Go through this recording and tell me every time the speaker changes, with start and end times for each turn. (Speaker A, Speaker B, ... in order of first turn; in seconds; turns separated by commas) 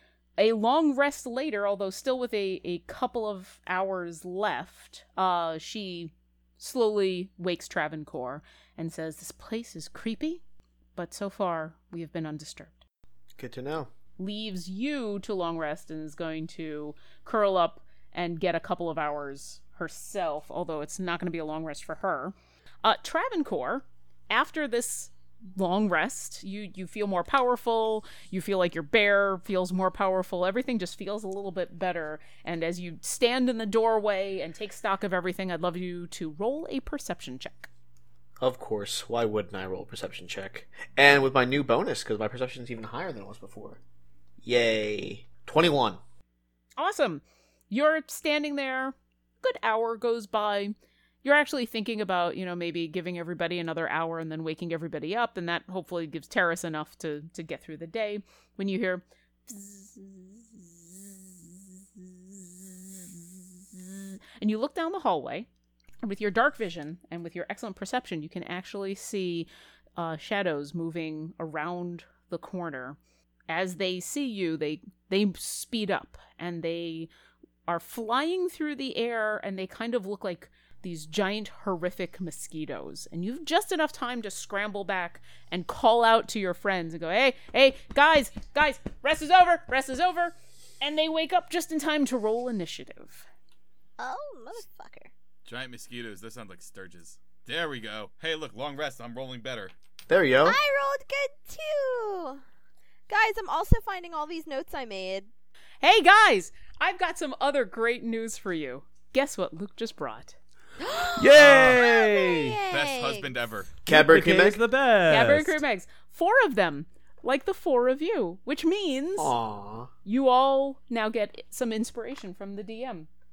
Speaker A: 0.4-10.4, Speaker A: 11.0-12.8, Speaker B: 13.4-13.9, Speaker A: 14.2-37.7, Speaker B: 38.4-43.8, Speaker B: 44.4-46.0, Speaker A: 46.8-65.5, Speaker A: 66.0-73.0, Speaker A: 73.5-77.1, Speaker A: 77.7-93.3, Speaker C: 94.0-95.1, Speaker D: 95.5-99.7, Speaker B: 100.1-100.6, Speaker C: 100.4-102.4, Speaker C: 103.1-105.3, Speaker A: 105.8-110.4, Speaker C: 110.8-113.3, Speaker E: 111.2-112.6, Speaker D: 111.4-111.8, Speaker D: 112.7-113.8, Speaker B: 113.9-114.6, Speaker E: 113.9-115.6, Speaker A: 115.1-119.3, Speaker B: 119.2-119.9, Speaker A: 120.0-123.1